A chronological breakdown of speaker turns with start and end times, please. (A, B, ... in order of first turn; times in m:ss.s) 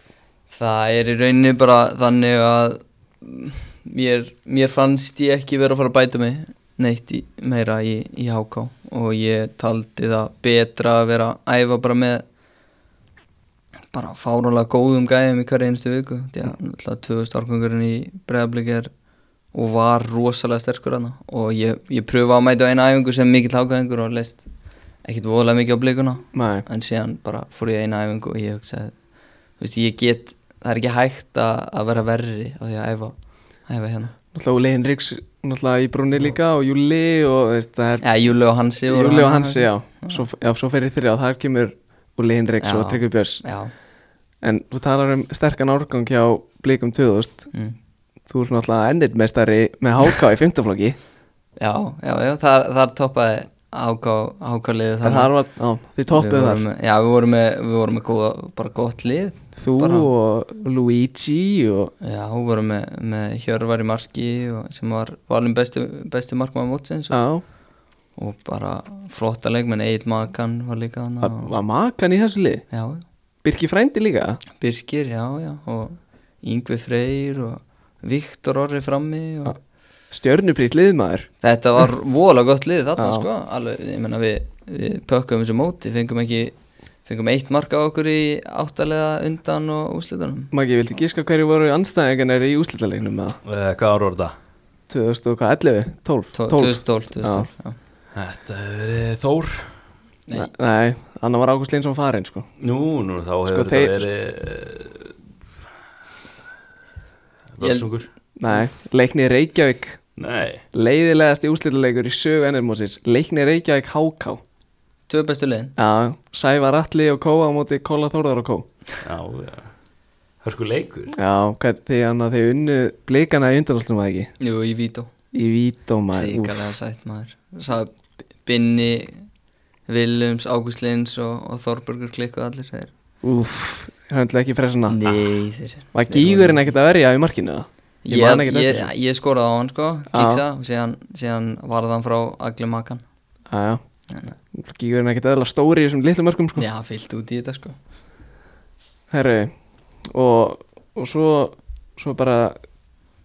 0:00.5-0:12.2 A
0:13.9-0:18.9 A
0:19.5-0:24.5 A
0:25.0-0:29.0 A
0:26.3-0:26.6 B
0:29.6-0:34.1 A
0:34.3-0:38.0 B
0:38.0-0:40.2 A
0:38.9-0:43.4 B
0:42.6-0:43.7 A
0:44.4-0:47.5 B
0:48.3-0:51.0 B
0:51.6-0:55.3 A
0:55.0-0:56.6 B
0:56.1-1:00.1 A
0:59.6-1:01.9 B
1:02.0-1:07.2 A
1:07.1-1:07.4 B
1:08.2-1:11.5 A
1:11.2-1:12.6 B
1:12.7-1:13.0 A
1:13.4-1:14.4 B
1:14.6-1:19.6 A
1:20.1-1:21.3 B
1:21.4-1:26.5 A
1:23.0-1:23.3 B
1:27.1-1:30.5 A
1:30.5-1:33.4 B
1:33.4-1:34.4 C
1:34.9-1:37.5 B
1:36.4-1:37.8 A
1:38.1-1:39.8 C
1:40.3-1:42.5 B
1:42.6-1:45.2 C
1:43.5-1:44.0 B
1:47.5-1:48.1 C
1:47.6-1:47.9 A
1:48.4-1:50.0 B
1:50.2-1:50.7 C
1:50.7-1:54.4 B
1:55.1-1:55.8 A
1:55.8-1:58.7 B
1:59.0-1:59.7 C
2:00.4-2:01.2 C
2:01.1-2:04.3 B
2:04.4-2:05.1 A
2:05.3-2:06.6 B
2:06.2-2:09.3 A
2:09.9-2:12.9 A
2:13.2-2:15.0 B
2:14.9-2:16.7 A
2:15.9-2:18.9 B
2:18.1-2:23.0 A
2:20.1-2:20.4 B
2:23.5-2:23.8 B
2:24.1-2:24.4 A
2:24.5-2:26.6 B
2:26.6-2:27.8 A
2:29.1-2:29.5 B
2:30.1-2:32.6 B